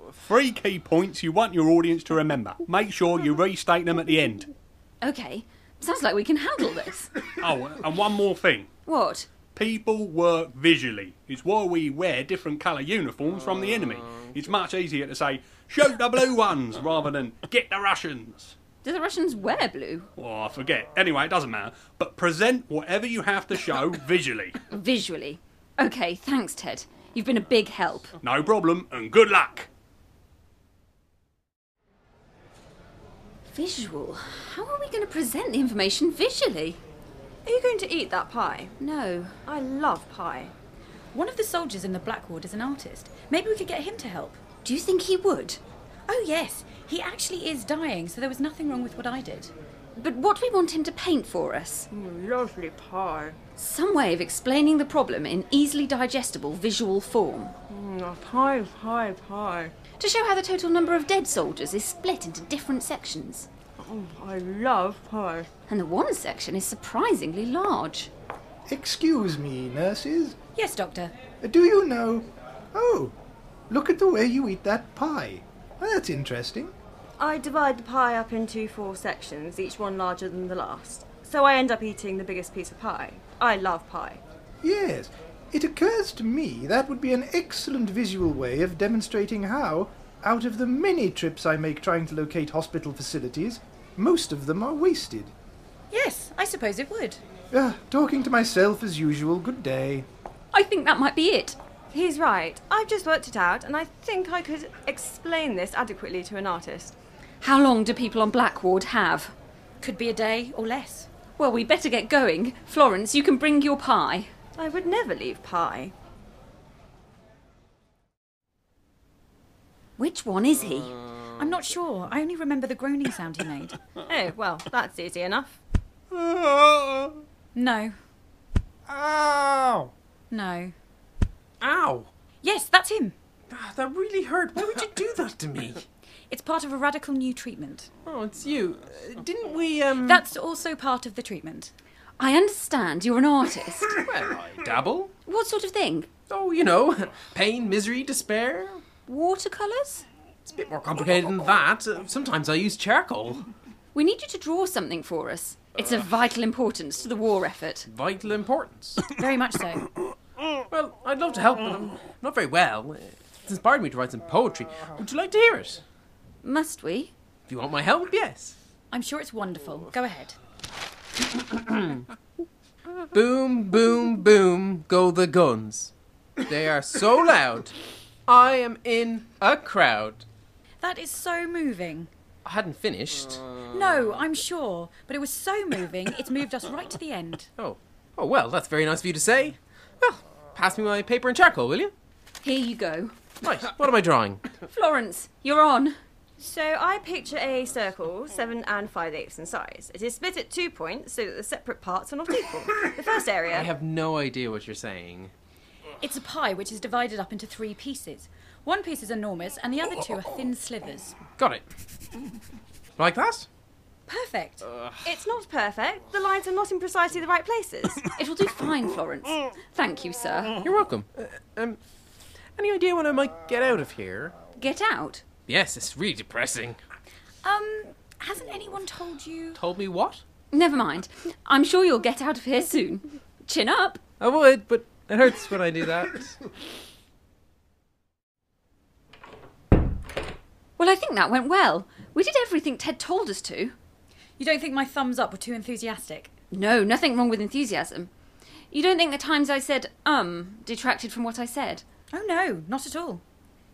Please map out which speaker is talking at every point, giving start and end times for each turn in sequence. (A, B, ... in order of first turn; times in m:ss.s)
0:00.2-0:04.5 A
0:05.0-0:07.1 B
0:07.4-0:08.7 A
0:08.9-0:09.3 B
0:09.5-0:18.6 A
0:18.8-0:20.1 B
0:20.2-0:24.6 A
0:24.7-0:28.1 B
0:28.2-0:29.7 A
0:33.5-0:36.8 B
0:37.5-0:38.7 C
0:38.8-0:39.3 B
0:39.5-0:40.5 C
0:41.1-0:44.4 D
0:44.6-0:45.6 B
0:46.1-0:49.5 D
0:50.0-0:51.9 B
0:51.9-0:53.4 C
0:53.6-0:57.6 B
0:57.7-0:59.7 C
1:00.0-1:03.5 B
1:03.8-1:05.5 C
1:05.7-1:08.1 B
1:08.7-1:10.4 E
1:10.6-1:11.1 D
1:11.4-1:13.1 E
1:13.7-1:16.7 E
1:17.2-1:24.2 C
1:24.6-1:35.3 E
1:35.9-1:37.2 D
1:37.5-1:40.1 E
1:40.5-1:41.6 B
1:41.9-1:47.0 C
1:47.4-1:49.3 B
1:49.8-1:51.1 D
1:51.4-1:54.3 B
1:54.6-1:55.9 C
2:00.0-2:01.0 B
2:01.2-2:03.8 D
2:04.0-2:05.6 C
2:06.1-2:07.2 A
2:07.5-2:08.0 D
2:08.9-2:09.9 E
2:10.3-2:10.7 D
2:11.6-2:12.1 F
2:12.4-2:13.2 D
2:13.5-2:15.9 F
2:16.3-2:17.9 D
2:18.1-2:20.3 F
2:20.0-2:21.7 D
2:22.2-2:24.0 B
2:23.9-2:25.1 F
2:25.3-2:26.1 B
2:26.3-2:28.8 F
2:29.1-2:30.1 B
2:30.5-2:33.5 F
2:33.9-2:37.9 B
2:37.9-2:39.0 F
2:39.2-2:39.9 D
2:40.7-2:45.8 F
2:46.4-2:47.1 B
2:47.5-2:48.6 F
2:48.9-2:50.4 D
2:51.3-2:52.0 F
2:53.1-2:57.8 F
2:58.3-3:00.2 F
3:00.8-3:02.1 D
3:02.4-3:03.6 F
3:03.7-3:07.5 D
3:07.6-3:11.9 F
3:12.4-3:13.2 B
3:13.4-3:14.5 F
3:14.7-3:16.0 B
3:16.4-3:23.7 C
3:23.5-3:25.3 F
3:26.0-3:31.2 D
3:31.4-3:31.7 F
3:33.0-3:33.5 F
3:34.1-3:34.7 D
3:34.7-3:35.0 F
3:35.0-3:38.1 C
3:38.1-3:40.6 B
3:40.6-3:41.8 F
3:42.6-3:44.3 F
3:44.6-3:45.2 B
3:45.5-3:46.8 F
3:47.4-3:49.6 D
3:49.6-3:50.2 F
3:50.5-3:54.0 B
3:54.2-3:56.4 F
4:00.8-4:03.7 B
4:04.4-4:06.3 D
4:06.5-4:08.1 B
4:08.7-4:11.8 B
4:12.1-4:13.2 D